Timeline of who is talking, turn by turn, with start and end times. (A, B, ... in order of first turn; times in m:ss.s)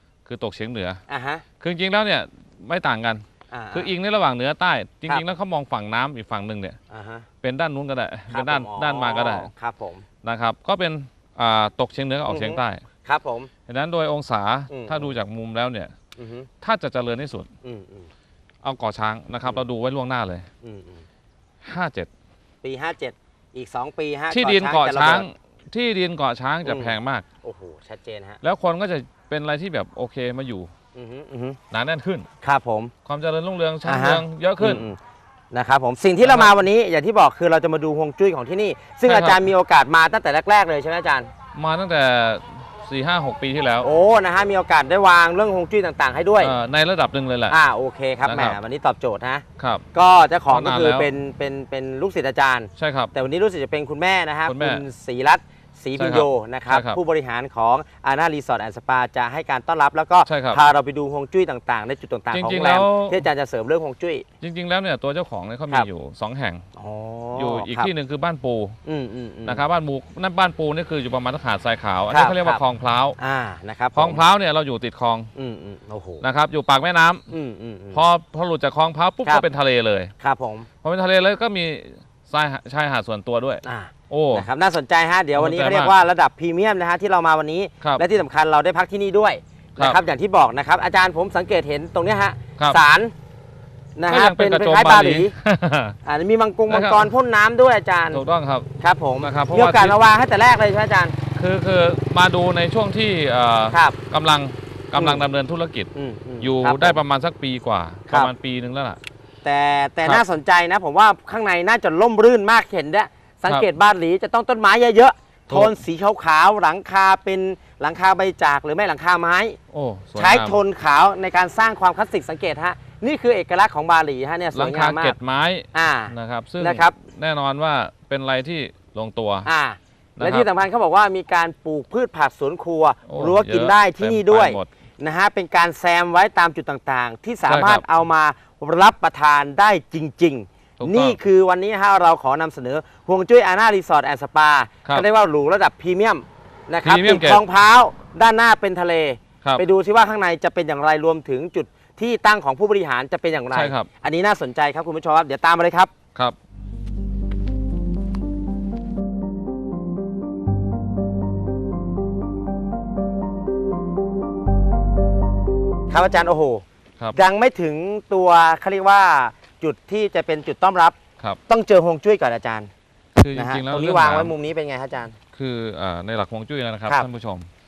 0:00.2-0:01.0 A
0:01.1-0:01.4 B
0:01.6-0:06.8 A
0:03.5-0:03.9 B
0:06.9-0:07.3 B
0:07.4-0:09.5 A
0:08.3-0:10.0 B
0:10.2-0:12.8 A
0:12.3-0:13.5 B
0:13.7-0:15.9 A
0:14.7-0:15.1 B
0:16.2-0:16.5 B
0:16.6-0:17.5 A
0:17.6-0:18.1 B
0:18.6-0:20.5 A
0:20.6-0:21.0 B
0:21.6-0:22.1 A
0:22.6-0:25.2 B
0:24.3-0:27.2 A
0:26.6-0:28.4 B
0:28.4-0:30.7 A
0:30.9-0:31.6 B
0:31.7-0:32.3 A
0:32.4-0:32.9 B
0:33.0-0:34.9 A
0:33.8-0:35.0 B
0:35.5-0:41.3 B
0:36.2-0:36.5 A
0:39.0-0:39.4 A
0:41.5-0:43.9 A
0:43.8-0:46.5 B
0:46.4-0:47.6 A
0:47.5-1:04.2 B
0:48.2-0:48.6 A
0:49.6-0:49.9 A
0:50.4-0:51.1 A
0:52.8-0:53.1 A
0:54.4-0:54.8 A
0:56.0-0:57.0 A
1:00.2-1:00.6 A
1:02.3-1:03.2 A
1:04.4-1:06.6 A
1:06.8-1:07.9 B
1:07.4-1:08.8 A
1:08.8-1:09.6 B
1:09.4-1:13.2 A
1:12.1-1:12.6 B
1:13.2-1:14.2 B
1:13.9-1:15.3 A
1:15.3-1:16.2 B
1:16.2-1:17.3 A
1:17.3-1:18.0 B
1:17.9-1:20.1 A
1:20.2-1:20.7 B
1:20.8-1:24.5 A
1:23.6-1:33.1 B
1:25.3-1:25.9 A
1:34.0-1:35.3 B
1:34.1-1:36.0 A
1:36.0-1:38.2 B
1:36.7-1:37.1 A
1:38.1-1:40.0 A
1:38.8-1:41.1 B
1:41.4-1:45.9 A
1:43.7-1:44.0 B
1:44.9-1:45.2 B
1:45.9-1:47.0 B
1:46.4-1:49.0 A
1:49.4-1:59.6 B
1:55.5-1:55.7 A
1:59.7-2:00.6 A
2:00.2-2:05.1 B
2:04.5-2:09.5 A
2:05.7-2:07.0 B
2:09.4-2:35.9 B
2:10.2-2:10.5 A
2:13.1-2:14.7 A
2:17.4-2:17.8 A
2:20.8-2:21.2 A
2:26.8-2:27.4 A
2:33.5-2:33.9 A
2:45.9-2:51.0 B
2:51.5-2:52.7 B
2:53.2-2:54.3 A
2:53.3-2:55.2 B
2:55.3-2:57.5 A